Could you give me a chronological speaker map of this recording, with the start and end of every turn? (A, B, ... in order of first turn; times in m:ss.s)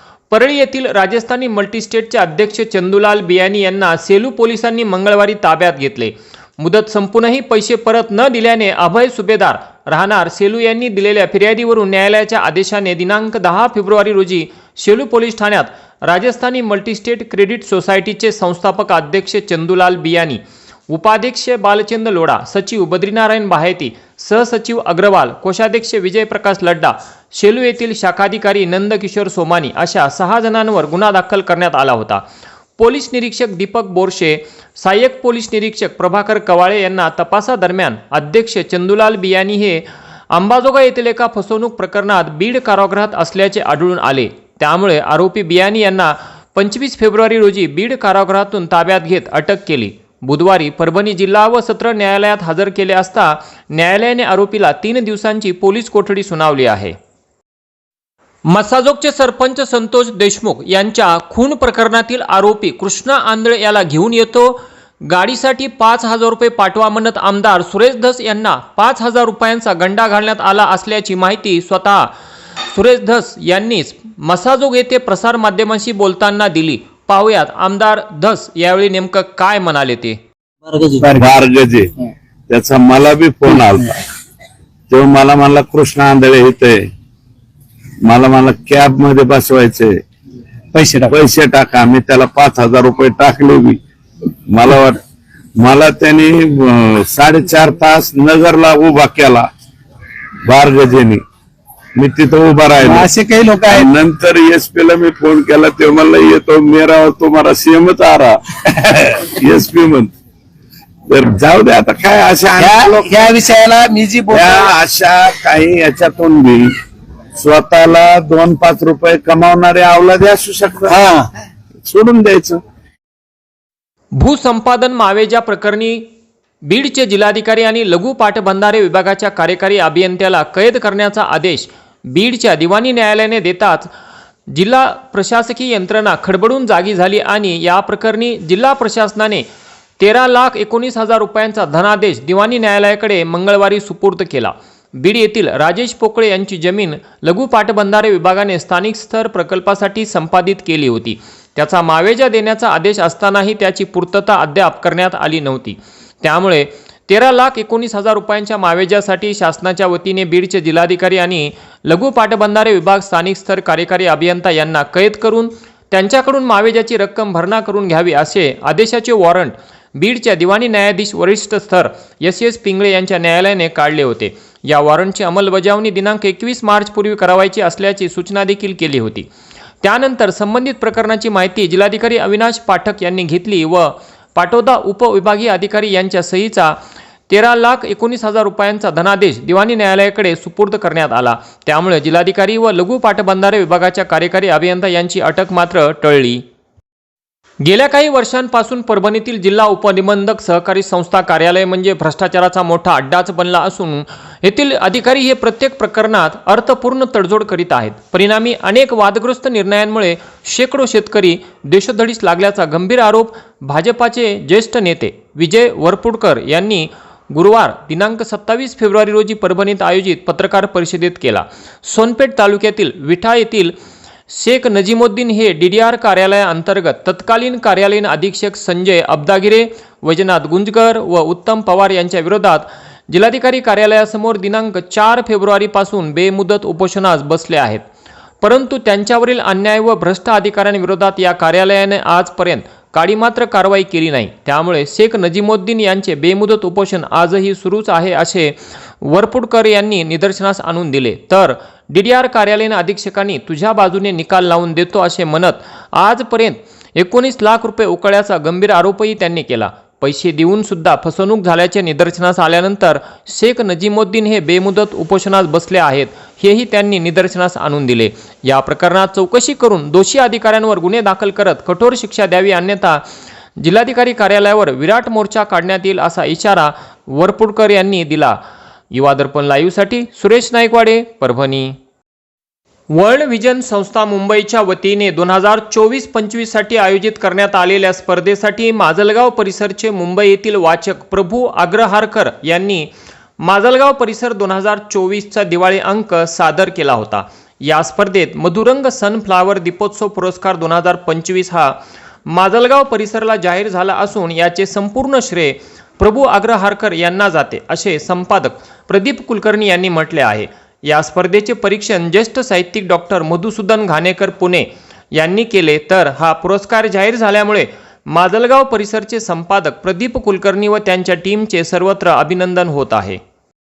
0:00.3-0:32.2 A
0:32.8-0:57.0 A
0:58.5-1:12.1 A
1:12.7-1:20.2 A
1:20.7-1:21.3 B
1:21.0-1:21.9 C
1:22.5-1:24.0 C
1:24.9-1:26.8 C
1:28.1-1:30.0 C
1:30.7-1:31.2 B
1:31.1-1:33.8 C
1:34.5-1:35.0 C
1:35.6-1:39.5 C
1:40.5-1:41.2 C
1:42.0-1:43.1 C
1:42.8-1:43.9 B
1:43.7-1:50.1 C
1:51.1-1:53.1 C
1:52.6-1:54.7 B
1:54.3-1:56.6 C
1:57.4-2:01.0 C
2:00.9-2:01.3 B
2:01.8-2:02.6 C
2:04.1-2:06.1 A
2:06.6-2:13.9 A
2:14.5-2:19.5 A
2:20.0-2:59.3 A
2:59.8-3:06.8 A
3:07.3-3:16.4 A
3:17.6-3:43.8 A
3:44.3-3:57.8 A
3:58.4-4:33.0 A
4:33.6-4:38.4 A
4:38.9-4:41.8 A
4:42.9-4:52.9 A
4:53.4-5:23.2 A